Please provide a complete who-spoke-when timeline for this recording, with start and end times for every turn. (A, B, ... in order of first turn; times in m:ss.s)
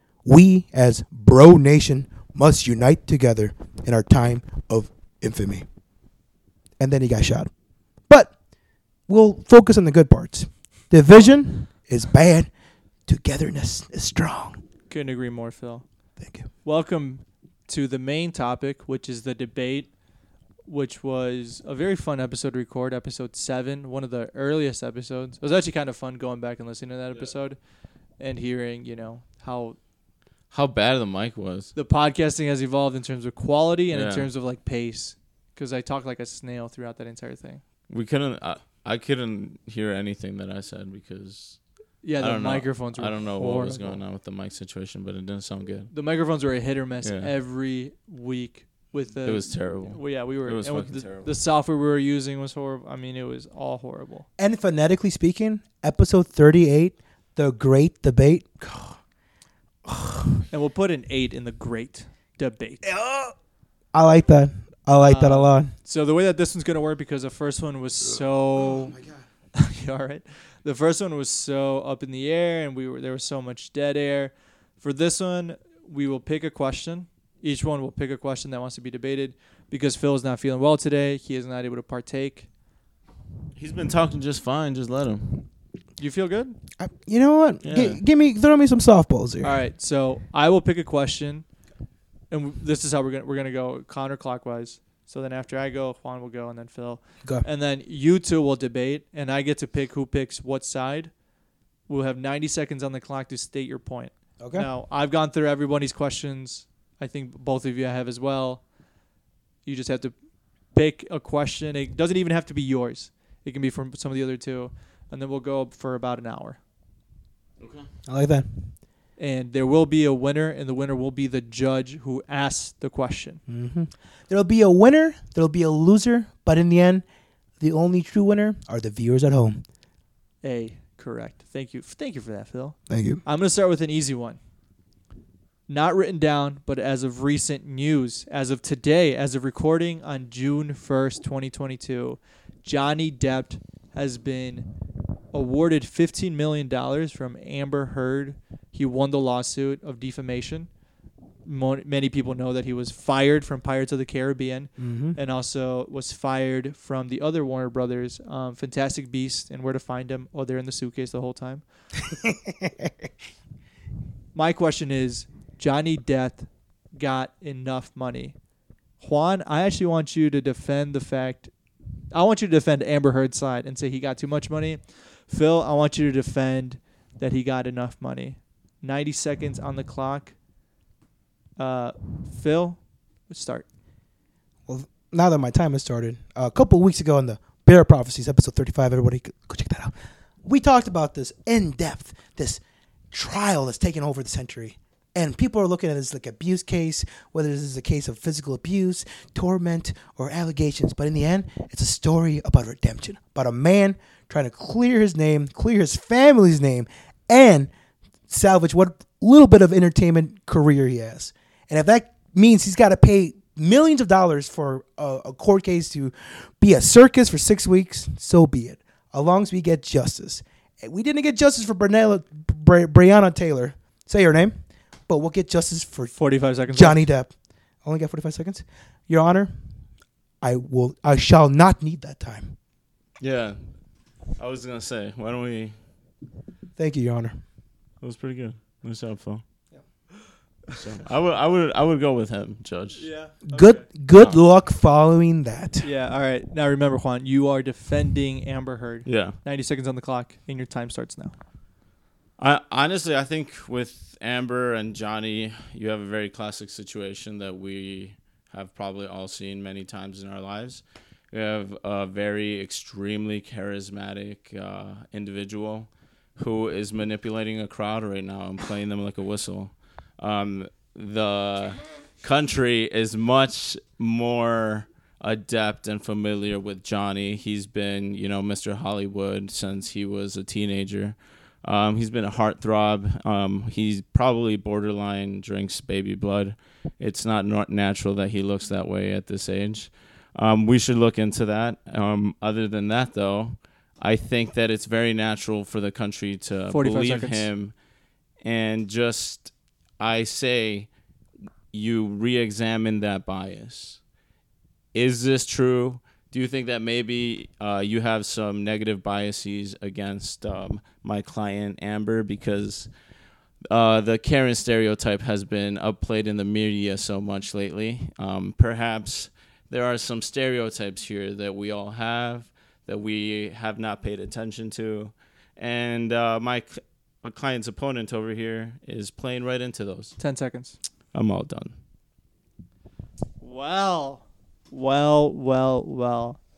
0:00.2-0:05.6 A
0:06.8-0:07.5 A
0:08.1-0:08.3 A
0:09.1-0:12.5 A
0:13.1-0:14.6 A
0:14.9-0:15.8 B
0:16.2-0:16.5 A
0:16.6-0:19.9 B
0:20.6-0:27.6 B
0:28.2-0:29.8 B
0:30.5-0:31.7 C
0:31.7-0:37.6 B
0:33.9-0:34.3 C
0:37.9-0:41.6 C
0:42.0-0:44.0 B
0:42.2-0:45.9 C
0:45.9-0:54.2 B
0:47.0-0:47.3 C
0:49.2-0:51.3 C
0:54.4-0:59.0 A
0:59.8-1:00.4 A
1:00.5-1:02.8 B
1:02.8-1:03.3 A
1:03.9-1:05.7 A
1:05.0-1:09.0 B
1:08.7-1:09.2 A
1:09.5-1:22.5 B
1:23.6-1:25.5 C
1:26.0-1:26.6 B
1:26.8-1:29.6 A
1:27.6-1:28.0 C
1:29.4-1:31.4 B
1:32.3-1:41.1 B
1:41.9-1:48.6 B
1:44.4-1:44.7 A
1:49.6-1:50.1 B
1:50.7-1:56.6 B
1:57.6-1:57.9 C
1:58.1-1:58.7 A
1:59.2-2:03.4 B
2:03.5-2:07.0 A
2:07.6-2:09.6 A
2:10.4-2:14.4 B
2:12.9-2:13.2 A
2:15.7-2:24.7 B
2:25.3-2:30.7 B
2:31.4-2:41.6 B
2:34.8-2:35.2 A
2:42.1-2:43.1 A
2:44.3-2:48.3 B
2:49.0-2:51.5 B
2:52.1-3:00.3 B
3:01.6-3:03.6 B
3:04.7-3:12.6 A
3:13.1-3:27.7 A
3:28.3-3:46.1 A
3:46.2-3:47.1 B
3:46.7-3:47.3 A
3:47.8-3:49.5 A
3:50.4-3:52.6 A
3:53.2-3:53.6 C
3:54.4-3:55.7 C
3:56.8-3:57.4 A
3:58.0-3:59.4 C
4:00.7-4:03.1 C
4:02.9-4:03.8 B
4:03.5-4:05.9 A
4:05.8-4:11.3 B
4:09.0-4:09.4 C
4:12.4-4:57.7 C
4:56.7-4:57.5 B
4:58.4-5:00.9 C
5:01.7-5:04.0 C
5:04.9-5:12.9 C
5:13.7-5:30.2 C
5:30.2-5:30.8 B
5:31.1-5:31.7 C
5:33.4-5:36.4 B